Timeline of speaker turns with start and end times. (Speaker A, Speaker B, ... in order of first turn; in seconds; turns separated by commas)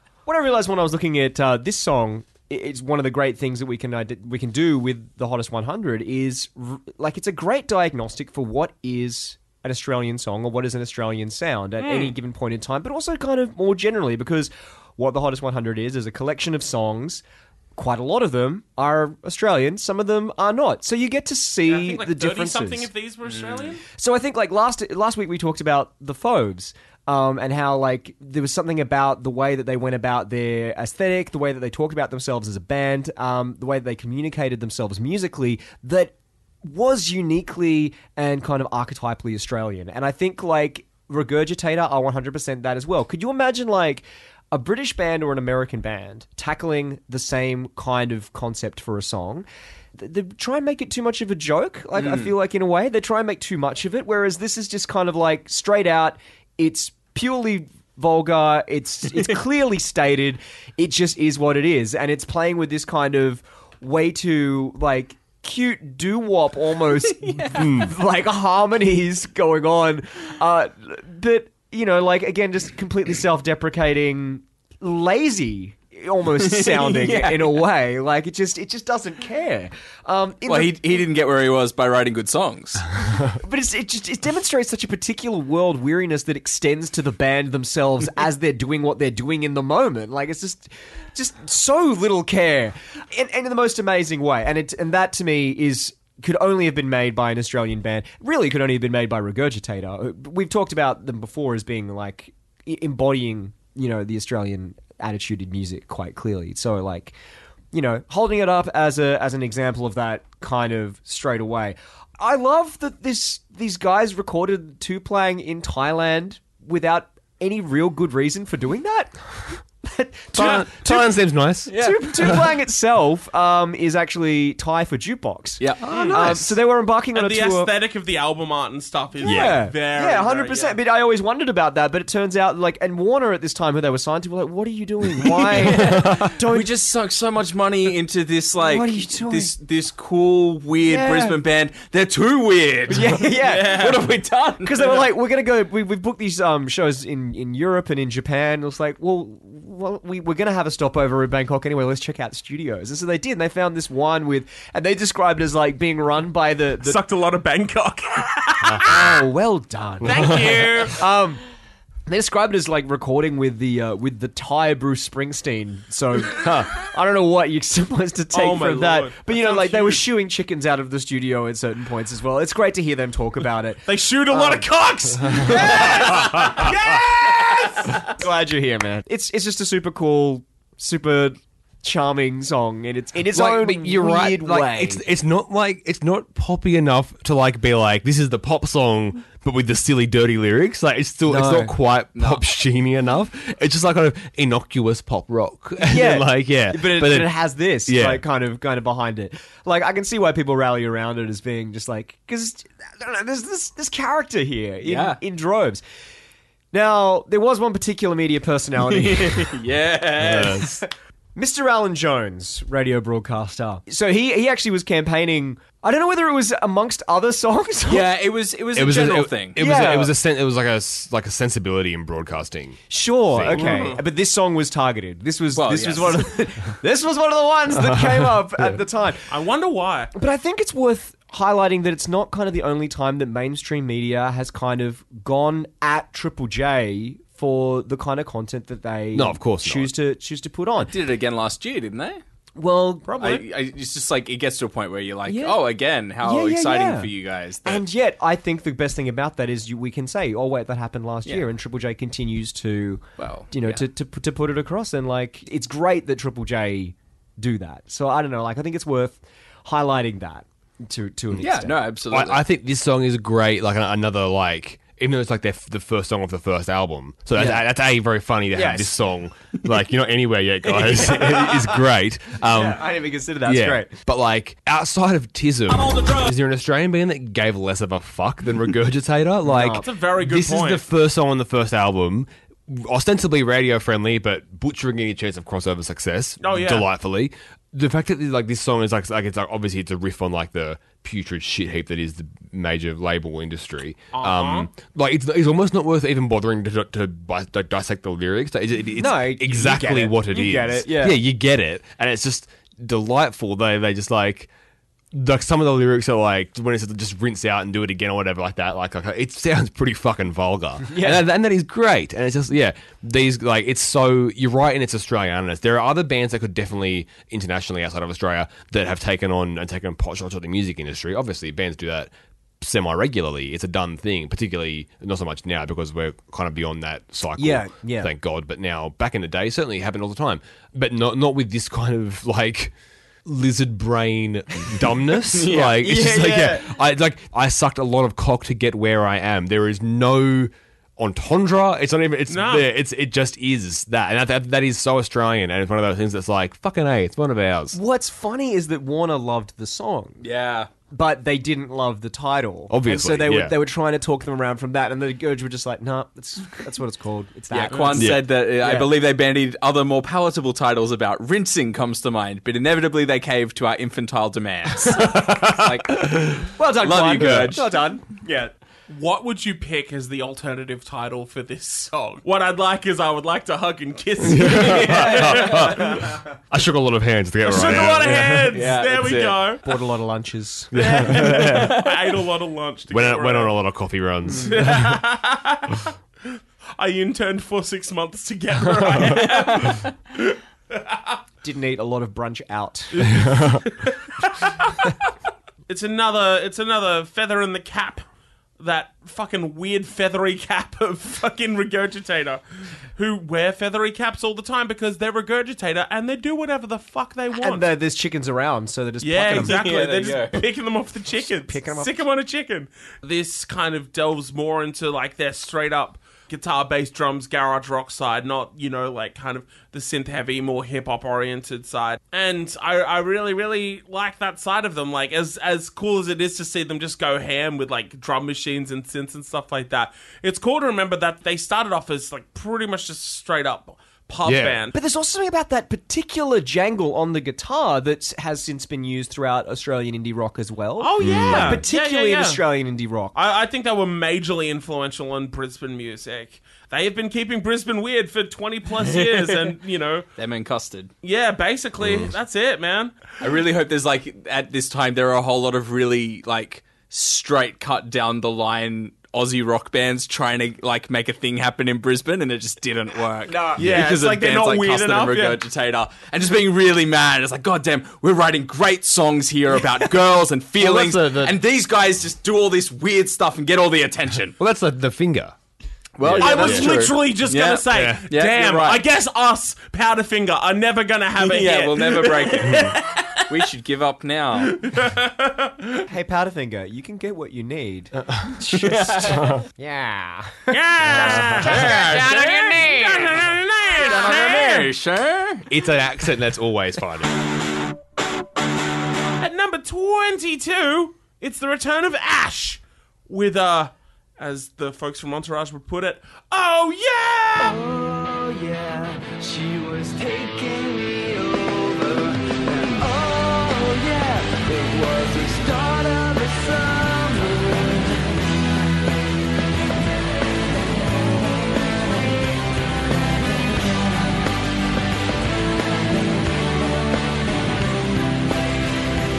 Speaker A: 0.3-17.2, Speaker B: 11.8-12.2, Speaker A: 17.8-22.9, Speaker B: 21.7-23.8, Speaker C: 23.2-23.8, Speaker A: 23.9-81.0, Speaker C: 52.0-52.3, Speaker C: 67.0-67.8, Speaker D: 67.5-67.9, Speaker C: 76.4-77.6, Speaker C: 80.5-82.9, Speaker A: 83.3-107.2, Speaker A: 107.7-127.7, Speaker D: 120.3-121.7, Speaker C: 121.7-122.4, Speaker C: 125.6-126.3, Speaker B: 125.9-126.3, Speaker B: 127.1-130.8, Speaker A: 129.2-136.7, Speaker D: 129.2-129.6, Speaker C: 135.4-145.1, Speaker D: 135.9-136.3, Speaker A: 138.6-139.5, Speaker A: 140.8-141.4, Speaker A: 142.9-157.0, Speaker B: 156.8-159.2, Speaker A: 158.8-161.4, Speaker B: 160.0-161.0, Speaker A: 162.1-176.7, Speaker D: 166.4-166.7, Speaker B: 168.3-170.0, Speaker B: 173.9-178.1, Speaker D: 176.2-176.7, Speaker A: 178.1-185.0, Speaker D: 183.3-197.3, Speaker A: 191.3-191.8, Speaker C: 192.2-192.4, Speaker A: 195.8-205.8, Speaker D: 197.9-198.2, Speaker C: 204.8-205.2, Speaker A: 206.7-209.6, Speaker C: 208.8-210.7, Speaker D: 210.2-210.8, Speaker A: 211.4-218.1, Speaker C: 217.9-219.6, Speaker D: 218.8-223.9, Speaker A: 219.6-220.1, Speaker A: 222.9-229.3, Speaker B: 223.5-224.0, Speaker C: 225.6-226.3, Speaker B: 229.3-230.1, Speaker A: 230.1-240.9, Speaker D: 239.1-239.9, Speaker C: 240.8-242.2, Speaker A: 242.6-243.4, Speaker C: 243.2-247.8, Speaker A: 245.3-245.6, Speaker A: 246.2-247.1, Speaker A: 247.7-261.8, Speaker C: 253.2-253.8, Speaker C: 261.3-262.4, Speaker D: 262.1-272.8, Speaker A: 267.4-267.6, Speaker A: 268.5-268.9, Speaker C: 270.9-271.5, Speaker A: 271.2-271.5, Speaker A: 272.5-273.9, Speaker D: 273.4-304.5, Speaker B: 275.7-276.3, Speaker A: 279.4-279.9, Speaker B: 279.8-280.8, Speaker B: 286.4-286.9, Speaker B: 294.1-294.7, Speaker A: 299.0-301.2, Speaker D: 305.1-332.7, Speaker A: 310.9-311.2, Speaker A: 327.4-328.1, Speaker D: 333.2-347.8, Speaker C: 335.3-335.8, Speaker A: 335.8-336.7, Speaker B: 342.3-342.7, Speaker A: 347.7-350.2, Speaker C: 350.2-350.7, Speaker A: 350.9-358.9, Speaker D: 352.7-353.5, Speaker C: 357.5-367.7, Speaker D: 358.0-358.3, Speaker D: 365.0-366.4, Speaker A: 366.6-368.5, Speaker B: 368.9-376.1, Speaker D: 374.3-378.5, Speaker C: 374.4-375.6, Speaker B: 377.4-379.6, Speaker C: 378.5-379.6, Speaker A: 379.6-381.4, Speaker D: 380.7-381.7, Speaker B: 380.8-383.6, Speaker C: 381.5-381.8, Speaker D: 382.9-384.7, Speaker A: 384.3-384.7, Speaker B: 384.4-391.2, Speaker A: 391.4-393.1, Speaker B: 392.9-395.1, Speaker D: 393.3-393.6, Speaker B: 395.7-398.1, Speaker B: 398.6-407.6, Speaker A: 407.3-409.8, Speaker B: 409.0-434.8, Speaker C: 409.3-410.4, Speaker A: 411.3-412.0, Speaker D: 434.2-434.6, Speaker A: 434.7-443.2, Speaker B: 440.8-442.4, Speaker D: 441.0-441.6, Speaker B: 443.1-450.1, Speaker C: 448.8-449.5, Speaker C: 450.2-450.9, Speaker B: 451.0-453.0, Speaker D: 451.8-452.1, Speaker C: 453.2-474.4, Speaker B: 463.3-465.4, Speaker D: 470.6-471.4, Speaker D: 474.4-475.4, Speaker C: 476.0-478.8, Speaker D: 476.0-476.9, Speaker B: 476.2-483.2, Speaker D: 477.7-478.0, Speaker C: 481.2-484.6, Speaker B: 484.4-485.8, Speaker A: 485.9-493.3, Speaker C: 488.5-489.3, Speaker D: 489.2-489.4, Speaker B: 490.5-494.7, Speaker C: 491.4-492.8, Speaker C: 493.7-495.5, Speaker D: 495.5-497.1, Speaker B: 499.2-507.6, Speaker E: 507.4-518.4, Speaker E: 521.7-522.1, Speaker E: 522.9-524.3, Speaker E: 525.9-527.6